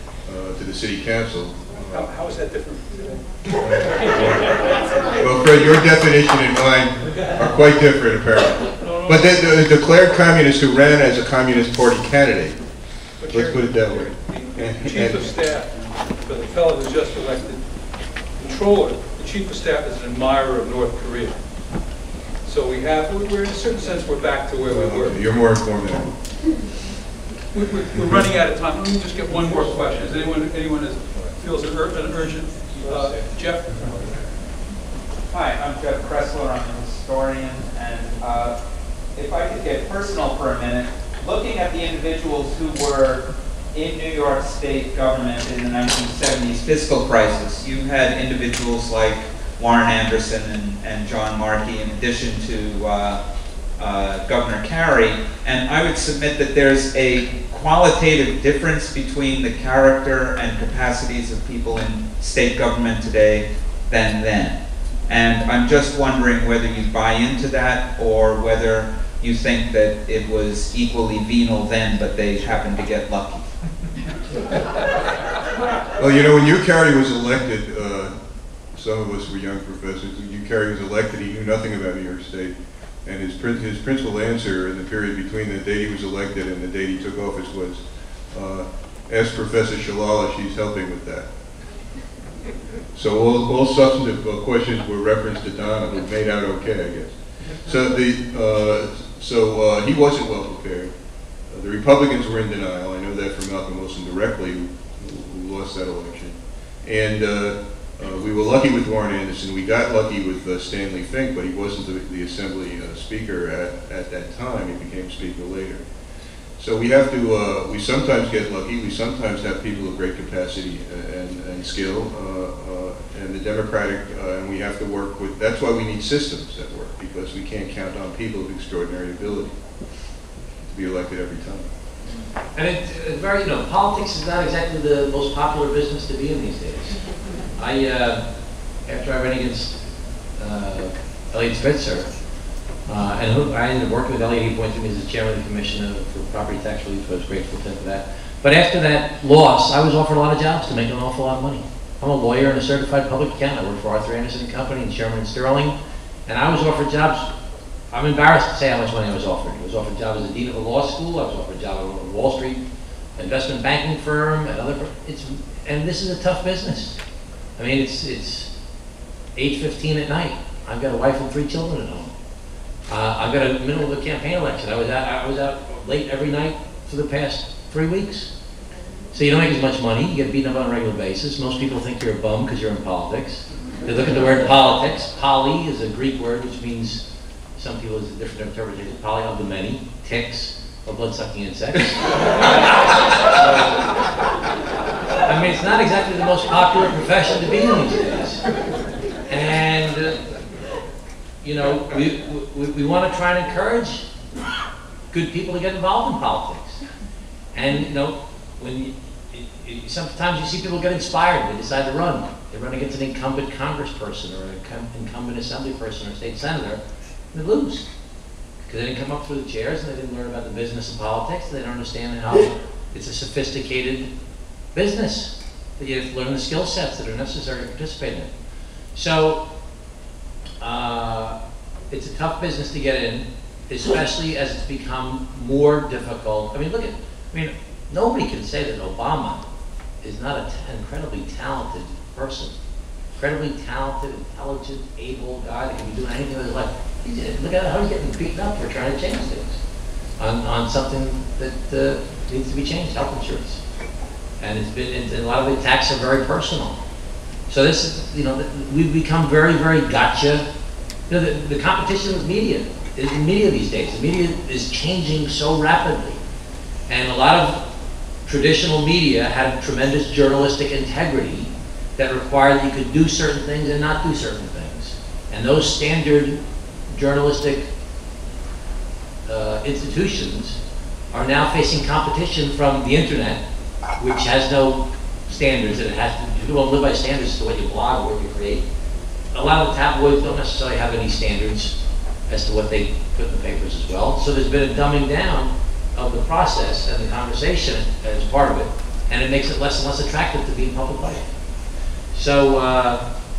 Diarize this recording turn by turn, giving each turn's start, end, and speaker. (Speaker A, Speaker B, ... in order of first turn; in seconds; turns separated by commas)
Speaker A: 0.2-2.2, Speaker B: 1.7-3.2, Speaker A: 3.5-12.6, Speaker B: 8.8-9.5, Speaker B: 13.2-17.6, Speaker A: 13.3-15.4, Speaker B: 18.4-21.4, Speaker B: 22.4-25.2, Speaker A: 24.6-26.1, Speaker B: 27.5-34.1, Speaker A: 27.9-28.3, Speaker C: 35.3-38.6, Speaker C: 39.1-53.2, Speaker C: 53.8-73.5, Speaker A: 76.0-78.2, Speaker A: 78.7-87.8, Speaker A: 88.3-91.3, Speaker A: 92.9-100.9, Speaker A: 101.5-115.8, Speaker A: 116.6-129.6, Speaker A: 130.7-131.7, Speaker D: 132.6-137.0, Speaker D: 137.6-138.2, Speaker D: 138.9-139.8, Speaker D: 140.4-142.1, Speaker D: 142.9-155.7, Speaker D: 156.3-157.3, Speaker D: 157.9-162.6, Speaker D: 163.2-167.0, Speaker D: 167.6-168.5, Speaker D: 169.4-172.1, Speaker D: 172.9-178.3, Speaker D: 179.1-187.0, Speaker D: 187.6-193.8, Speaker D: 195.2-198.4, Speaker D: 199.3-200.2, Speaker D: 201.4-204.1, Speaker D: 205.1-206.8, Speaker D: 207.5-216.8, Speaker D: 217.3-217.9, Speaker D: 218.7-224.1, Speaker D: 224.7-228.3, Speaker D: 228.9-229.4, Speaker D: 230.6-231.4, Speaker D: 231.9-239.4, Speaker D: 240.0-242.6, Speaker D: 243.2-249.6, Speaker D: 250.2-253.6, Speaker D: 254.4-256.8, Speaker D: 257.5-260.5, Speaker D: 261.1-266.2, Speaker D: 266.9-267.6, Speaker D: 268.3-276.4, Speaker D: 276.9-277.7, Speaker D: 279.3-280.6, Speaker D: 281.1-283.4, Speaker D: 284.0-288.6, Speaker D: 289.3-291.7, Speaker D: 292.3-301.3, Speaker D: 302.1-303.0